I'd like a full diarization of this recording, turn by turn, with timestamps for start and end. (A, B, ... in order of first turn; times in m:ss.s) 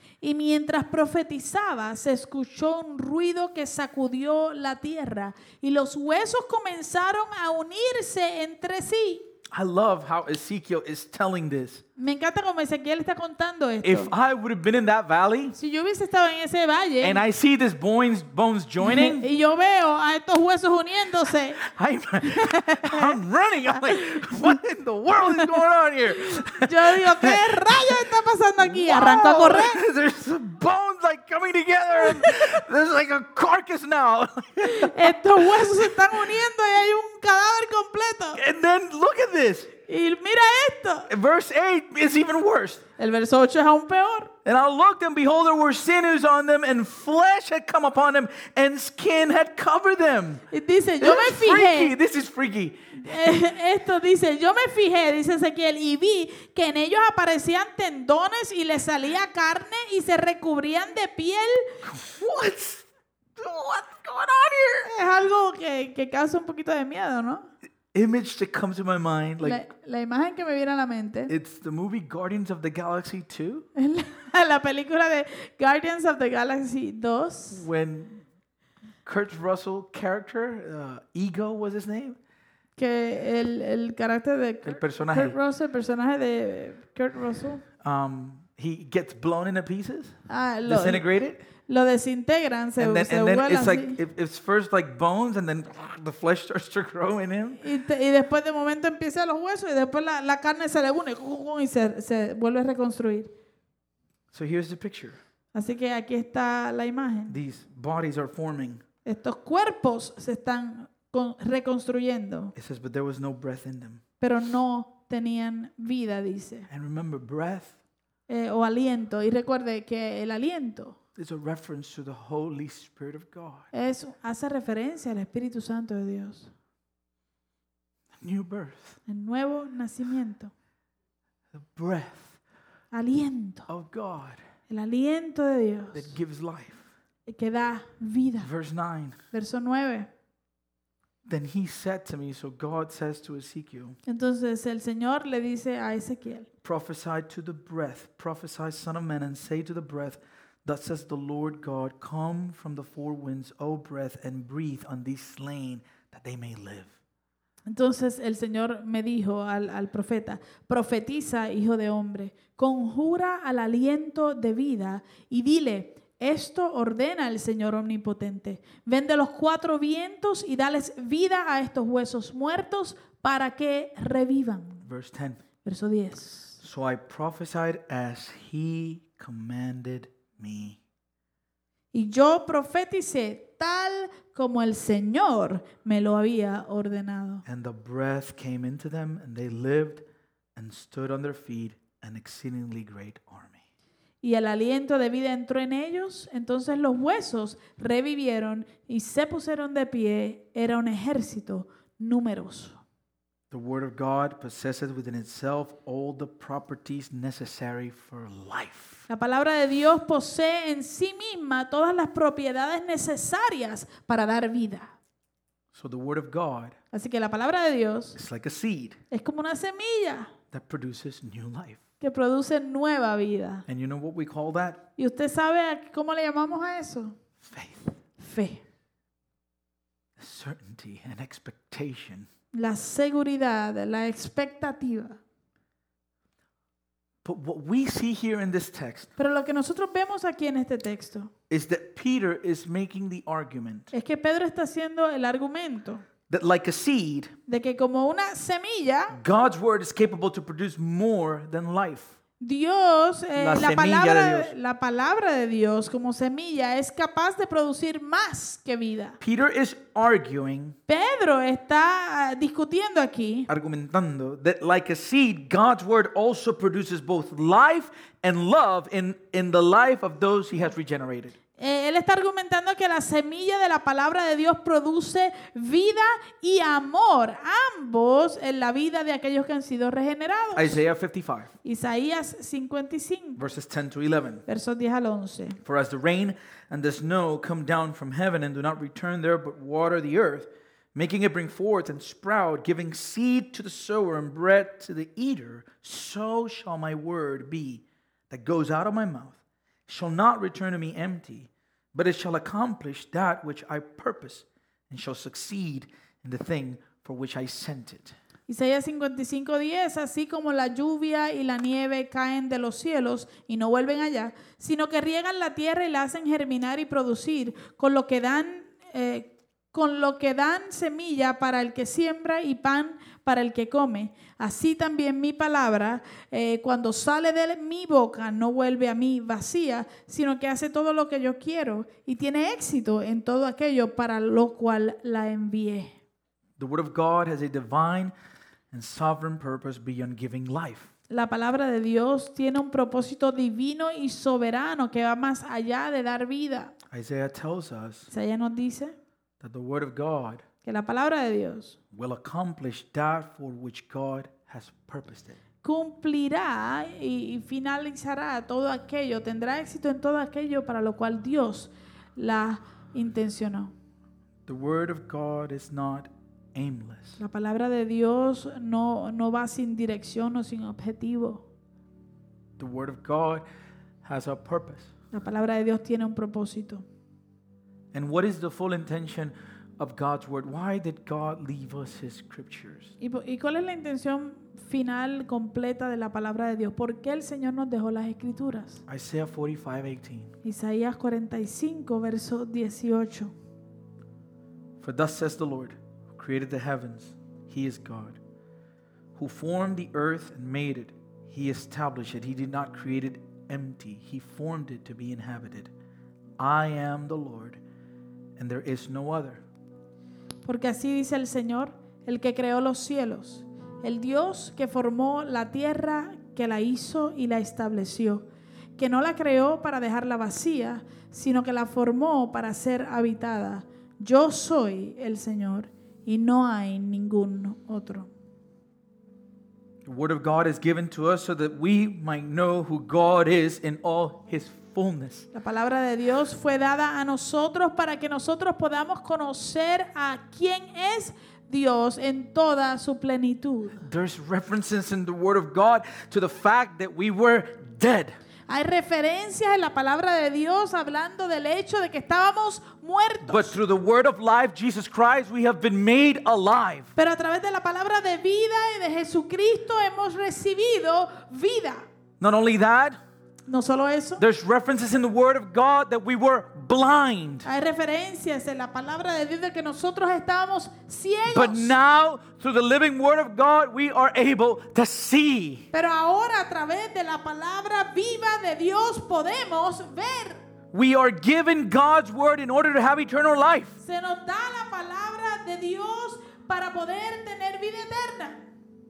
0:00.2-0:09.3 A
0:09.5-0:11.8 B
0:12.0-0:14.1 A
0:13.8-0:15.5 B
0:15.5-0:17.2 A
0:17.0-0:19.3 B
0:18.8-0:21.6 A
0:21.6-0:28.0 B
0:22.2-0:23.2 A
0:23.7-0:24.6 A
0:25.2-0:25.5 A
0:26.3-0:29.8 A
0:28.6-0:35.9 B
0:32.0-0:32.5 A
0:34.6-0:38.4 A
0:38.3-0:39.7 B
0:39.9-0:41.1 A
0:41.1-0:42.8 B
0:43.0-0:44.3 A
0:44.4-0:50.4 B
0:50.5-0:51.9 A
0:51.0-0:53.0 B
0:53.0-1:01.8 A
1:01.8-1:04.9 B
1:04.8-1:07.5 A
1:07.9-1:09.6 B
1:09.4-1:11.3 A
1:11.3-1:13.7 B
1:13.7-1:17.6 A
1:17.5-1:18.2 B
1:19.0-1:22.2 B
1:22.8-1:27.6 A
1:24.6-1:25.4 B
1:27.8-1:31.4 B
1:30.3-1:34.0 A
1:32.8-1:37.6 B
1:37.6-1:43.3 A
1:44.3-1:45.2 B
1:45.5-1:47.4 A
1:47.3-1:48.8 B
1:49.0-1:52.5 A
1:52.5-1:54.0 B
1:54.2-1:56.7 A
1:56.7-1:57.8 B
1:58.3-2:01.0 A
2:01.2-2:03.7 B
2:03.7-2:06.5 A
2:08.2-2:09.0 B
2:09.1-2:10.5 A
2:11.5-2:12.4 B
2:12.9-2:13.7 A
2:13.7-2:14.4 B
2:14.7-2:16.1 A
2:15.9-2:16.9 B
2:17.2-2:18.5 A
2:18.4-2:19.2 B
2:19.3-2:20.1 A
2:21.3-2:24.0 B
2:24.0-2:26.5 A
2:26.6-2:36.9 B
2:37.6-2:54.8 A
2:54.8-2:55.4 B
2:55.6-2:56.6 A
2:56.6-3:00.8 B
3:01.9-3:07.4 A
3:07.4-3:10.0 B
3:10.6-3:13.6 B
3:14.2-3:22.8 A
3:23.5-3:29.0 B
3:29.1-3:34.9 A
3:35.7-3:36.8 B
3:36.9-3:38.2 A
3:38.1-3:39.0 B
3:39.1-3:40.3 A
3:40.5-3:41.8 B
3:42.0-3:43.6 A
3:43.7-3:44.8 B
3:45.0-3:47.2 A
3:47.4-3:48.0 B
3:48.2-3:48.6 A
3:50.2-3:52.3 B
3:52.5-3:55.2 A
3:57.2-3:59.1 B
3:59.2-4:01.3 A
4:01.5-4:03.9 B
4:03.9-4:06.0 A
4:06.3-4:07.3 B
4:07.5-4:09.2 A
4:09.1-4:12.1 B
4:12.4-4:19.2 A
4:13.4-4:14.5 B
4:19.2-4:20.8 B
4:20.9-4:23.5 A
4:23.5-4:31.3 B
4:31.6-4:40.8 A
4:40.5-4:41.5 B
4:41.6-4:43.4 A
4:43.4-4:44.4 B
4:44.5-4:45.6 A
4:45.6-5:08.1 B
5:08.5-5:36.0 A
5:36.6-5:38.1 B
5:38.7-5:40.9 B
5:41.1-5:46.8 A
5:46.9-5:48.1 B
5:48.1-5:49.0 A
5:49.4-5:50.4 B
5:50.6-5:51.8 A
5:51.9-5:55.4 B
5:55.6-6:03.7 A
6:04.5-6:07.2 B
6:07.2-6:11.4 A
6:12.6-6:13.4 B
6:14.0-6:14.9 B
6:15.1-6:16.8 A
6:17.9-6:22.9 B
6:23.0-6:28.8 A
6:28.9-6:30.3 B
6:30.4-6:33.3 A
6:34.8-6:38.2 B
6:39.2-6:45.7 B
6:46.4-6:47.6 B
6:48.4-6:49.4 B
6:50.4-7:08.1 A
7:09.8-7:15.3 B
7:15.3-7:23.8 A
7:23.8-7:28.1 B
7:28.5-7:33.6 A
7:33.2-7:36.9 B
7:37.0-7:41.9 A
7:42.2-7:43.0 B
7:43.5-7:44.2 A
7:44.2-7:47.5 B
7:47.4-7:51.7 A
7:51.3-7:55.7 B
7:55.7-8:00.4 A
8:00.7-8:03.8 B
8:03.8-8:08.5 A